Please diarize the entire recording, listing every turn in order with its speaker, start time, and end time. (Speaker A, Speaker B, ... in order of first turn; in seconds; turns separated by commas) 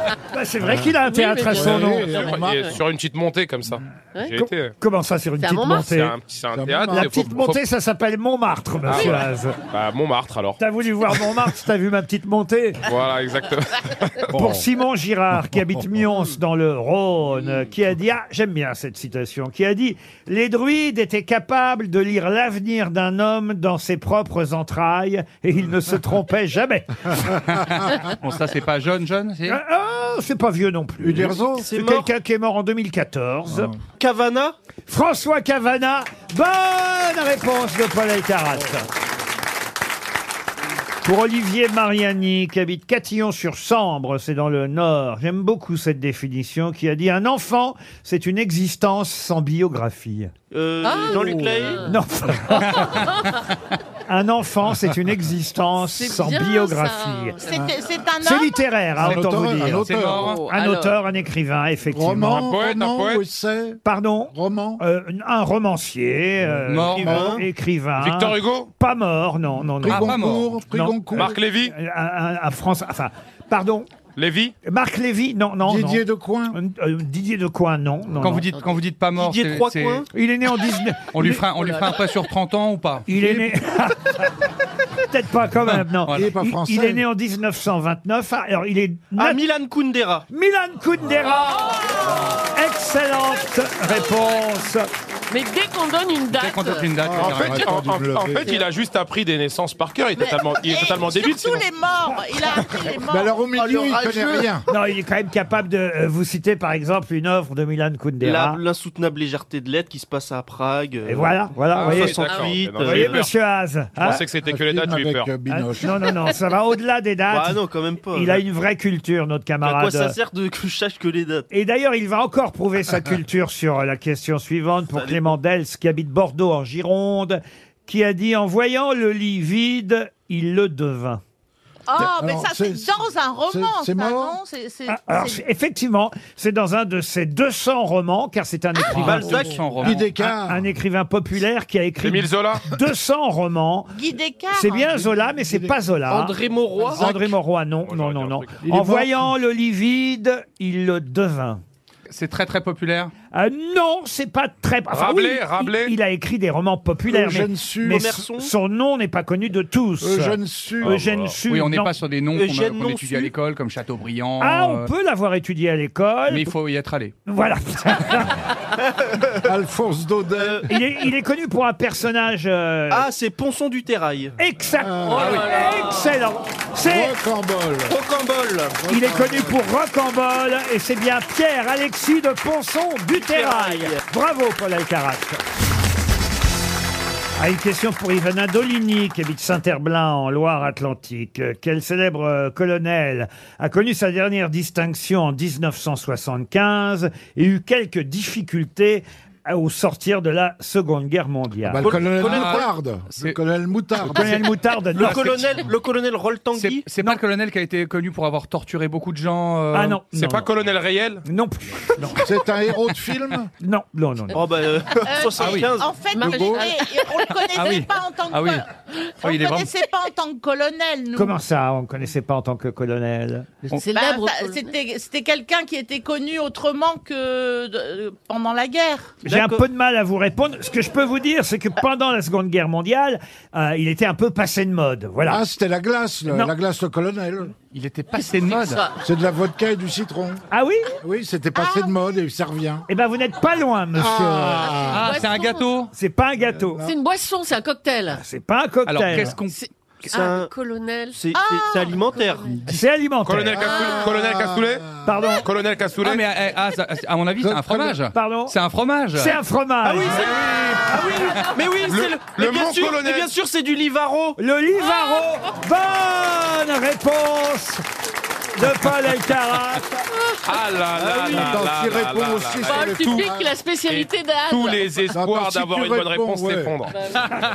Speaker A: 0.3-2.2, Speaker B: 0.7-0.9, Speaker C: 1.1-2.7, Speaker B: 1.5-2.8, Speaker D: 2.1-4.7, Speaker A: 4.3-6.2, Speaker C: 5.4-6.0, Speaker D: 5.9-7.6, Speaker B: 6.5-7.4, Speaker A: 6.9-9.6, Speaker D: 8.9-10.6, Speaker A: 10.6-12.8, Speaker D: 12.9-13.7, Speaker B: 14.3-14.6, Speaker A: 14.3-27.4, Speaker B: 15.5-15.8, Speaker E: 27.6-29.6, Speaker A: 29.4-33.7, Speaker B: 31.0-31.7, Speaker F: 31.5-32.1, Speaker F: 34.0-34.5, Speaker A: 34.9-38.9, Speaker A: 41.0-50.3, Speaker F: 50.5-52.0, Speaker C: 50.8-51.9, Speaker B: 51.1-51.5, Speaker A: 51.8-53.0, Speaker A: 54.1-57.4, Speaker C: 55.8-57.9, Speaker G: 57.4-58.6, Speaker A: 58.2-62.4, Speaker B: 59.0-60.4, Speaker E: 59.8-60.4, Speaker C: 60.0-61.0, Speaker B: 61.9-63.8, Speaker D: 62.2-63.2, Speaker A: 63.8-73.9, Speaker B: 64.3-64.8, Speaker B: 66.4-67.2, Speaker E: 66.7-67.2, Speaker F: 66.8-67.4, Speaker D: 68.0-68.7, Speaker B: 69.8-71.3, Speaker E: 69.9-70.5, Speaker D: 71.1-71.7, Speaker D: 74.2-74.5, Speaker A: 74.6-78.5, Speaker B: 75.6-76.6, Speaker E: 78.2-80.0, Speaker F: 79.1-80.1, Speaker A: 80.1-81.3, Speaker E: 81.1-83.1, Speaker A: 83.1-84.3, Speaker B: 83.1-83.5, Speaker A: 85.0-89.4, Speaker B: 86.1-87.0, Speaker F: 89.2-90.2, Speaker A: 90.3-91.7, Speaker A: 92.3-94.9, Speaker C: 95.3-96.9, Speaker E: 96.3-97.7, Speaker B: 97.0-98.5, Speaker D: 97.2-101.6, Speaker G: 100.2-104.0, Speaker B: 102.9-104.7, Speaker A: 104.7-108.6, Speaker F: 108.2-113.2, Speaker A: 111.1-114.2, Speaker D: 111.8-113.3, Speaker C: 112.2-112.6, Speaker D: 114.0-115.3, Speaker B: 114.4-115.9, Speaker A: 115.5-117.6, Speaker F: 117.3-118.4, Speaker A: 118.1-120.1, Speaker F: 119.6-121.5, Speaker A: 121.5-131.2, Speaker F: 124.9-125.3, Speaker G: 131.9-135.4, Speaker B: 132.0-134.4, Speaker A: 134.9-146.4, Speaker F: 138.9-139.7, Speaker E: 138.9-140.1, Speaker B: 139.8-140.6, Speaker D: 142.0-142.6, Speaker G: 143.9-145.0, Speaker B: 144.8-145.8, Speaker F: 146.1-147.1, Speaker A: 146.9-151.6, Speaker D: 147.8-148.6, Speaker B: 148.6-149.3, Speaker E: 152.1-153.1, Speaker A: 153.3-161.9, Speaker D: 154.9-156.0, Speaker B: 157.1-158.0, Speaker F: 157.8-158.5, Speaker B: 160.0-161.2, Speaker D: 160.8-161.3, Speaker E: 161.5-164.9, Speaker F: 162.3-163.3, Speaker A: 164.4-166.5, Speaker E: 166.3-167.1, Speaker A: 167.2-168.4, Speaker F: 168.8-169.4, Speaker B: 169.4-170.7, Speaker F: 170.3-170.7, Speaker A: 170.7-173.1, Speaker F: 172.9-174.3, Speaker A: 174.4-177.1, Speaker B: 174.8-175.3, Speaker C: 175.1-176.0, Speaker E: 175.2-175.4, Speaker B: 176.8-178.0, Speaker F: 177.9-178.8, Speaker B: 178.8-179.6, Speaker A: 178.9-185.4, Speaker F: 183.2-184.0, Speaker A: 187.4-201.9, Speaker B: 201.6-204.3, Speaker F: 201.8-202.7, Speaker E: 202.2-203.3, Speaker E: 204.0-204.5, Speaker A: 204.1-205.3, Speaker F: 204.9-206.8, Speaker E: 205.0-205.6, Speaker E: 206.5-210.0, Speaker A: 209.7-210.5, Speaker D: 210.1-211.2, Speaker A: 211.2-212.2, Speaker B: 212.2-213.5, Speaker A: 213.6-214.4, Speaker F: 214.3-216.0, Speaker G: 215.1-218.7, Speaker E: 215.4-215.7, Speaker B: 216.2-216.7, Speaker C: 216.3-217.0, Speaker E: 217.5-218.7, Speaker E: 219.2-219.7, Speaker G: 219.2-221.4, Speaker A: 221.2-223.5, Speaker C: 223.7-224.7, Speaker G: 223.8-229.2, Speaker F: 229.2-229.6, Speaker A: 229.2-235.4, Speaker B: 235.2-237.5, Speaker E: 237.7-238.8, Speaker C: 238.1-239.0, Speaker B: 239.0-240.4, Speaker A: 240.5-240.9, Speaker B: 241.0-242.8, Speaker G: 241.5-241.9, Speaker A: 242.9-244.7, Speaker B: 243.9-245.1, Speaker C: 244.6-245.7, Speaker E: 244.9-245.9, Speaker A: 245.9-246.8, Speaker B: 246.5-246.9, Speaker C: 246.8-248.2, Speaker A: 248.1-249.3, Speaker E: 248.9-249.6, Speaker C: 249.5-251.2, Speaker F: 250.0-250.5, Speaker F: 251.1-252.6, Speaker G: 251.3-252.0, Speaker C: 252.2-252.5, Speaker A: 252.7-253.9, Speaker D: 253.2-254.8, Speaker B: 253.6-255.1, Speaker A: 255.0-255.5, Speaker D: 255.4-256.2, Speaker E: 256.0-259.4, Speaker B: 257.4-258.0, Speaker A: 258.1-258.6, Speaker A: 259.1-260.3, Speaker F: 259.8-264.4, Speaker C: 260.9-261.4, Speaker D: 261.9-263.3, Speaker A: 264.4-267.8, Speaker A: 268.6-269.9, Speaker D: 270.4-273.3, Speaker F: 271.0-271.6, Speaker B: 271.0-273.4, Speaker C: 272.6-274.9, Speaker D: 273.9-276.9, Speaker B: 275.1-276.8